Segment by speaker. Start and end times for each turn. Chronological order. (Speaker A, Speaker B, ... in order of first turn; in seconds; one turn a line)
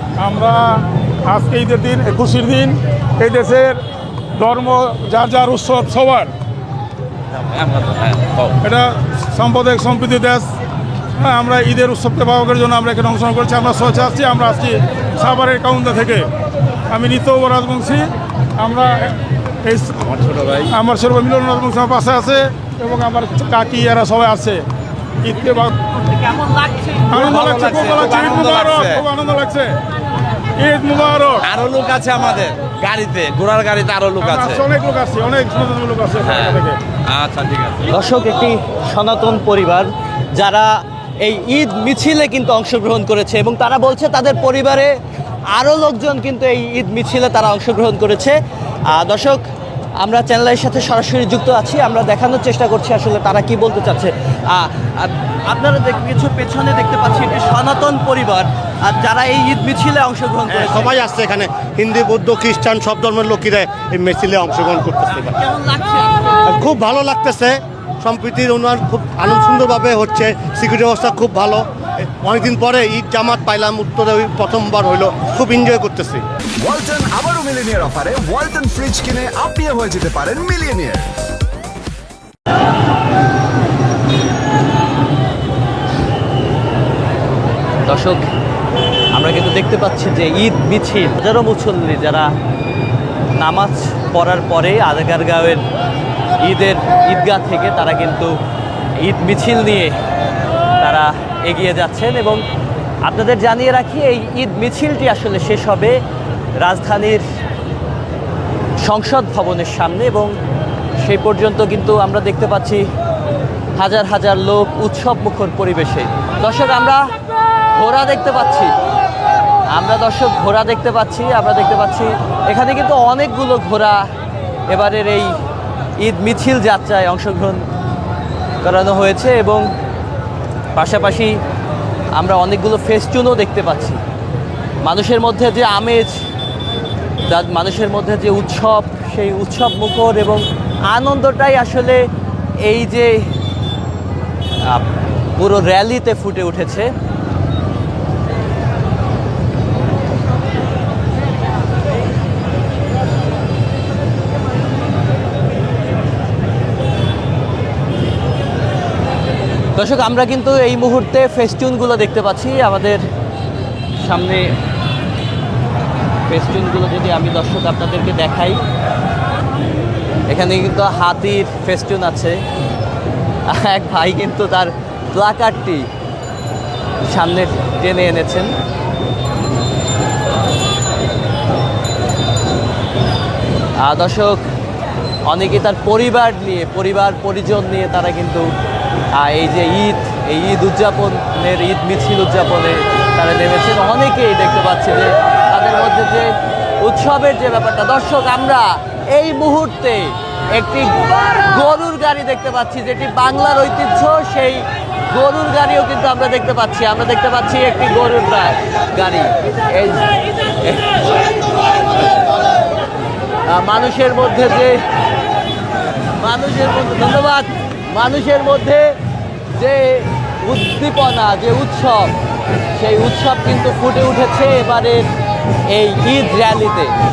Speaker A: 0.2-3.8
Speaker A: 4.4-6.3
Speaker B: 7.5-8.5
Speaker A: 8.6-10.5
Speaker A: 11.2-16.3
Speaker A: 16.9-24.6
Speaker B: 20.1-20.6
Speaker A: 25.2-25.7
Speaker B: 26.2-29.0
Speaker A: 27.1-29.8
Speaker A: 30.6-31.5
Speaker B: 31.5-34.6
Speaker A: 34.2-36.8
Speaker B: 37.1-37.8
Speaker C: 37.9-45.0
Speaker C: 45.5-49.4
Speaker C: 50.0-61.0
Speaker D: 60.5-65.4
Speaker C: 65.4-66.2
Speaker D: 66.5-76.2
Speaker E: 76.6-81.1
Speaker C: 87.9-88.2
Speaker C: 89.1-92.3
Speaker C: 93.4-95.7
Speaker C: 96.4-98.4
Speaker C: 99.0-100.0
Speaker C: 100.8-102.4
Speaker C: 103.0-106.0
Speaker C: 106.6-107.3
Speaker C: 108.8-110.3
Speaker C: 111.0-112.9
Speaker C: 113.8-117.1
Speaker C: 117.8-118.7
Speaker C: 119.7-124.0
Speaker C: 124.7-125.3
Speaker C: 126.0-127.6
Speaker C: 128.6-129.7
Speaker C: 130.7-131.4
Speaker C: 132.2-134.0
Speaker C: 134.8-136.2
Speaker C: 137.3-142.1
Speaker C: 142.6-143.3
Speaker C: 144.6-146.9
Speaker C: 159.8-163.0
Speaker C: 164.0-164.5
Speaker C: 166.3-168.6
Speaker C: 170.3-172.4
Speaker C: 173.5-175.9
Speaker C: 177.1-178.5
Speaker C: 183.8-184.4
Speaker C: 185.3-188.5
Speaker C: 189.2-211.0
Speaker C: 213.5-214.8
Speaker C: 216.2-219.0
Speaker C: 219.5-222.2
Speaker C: 222.8-225.1
Speaker C: 225.7-226.9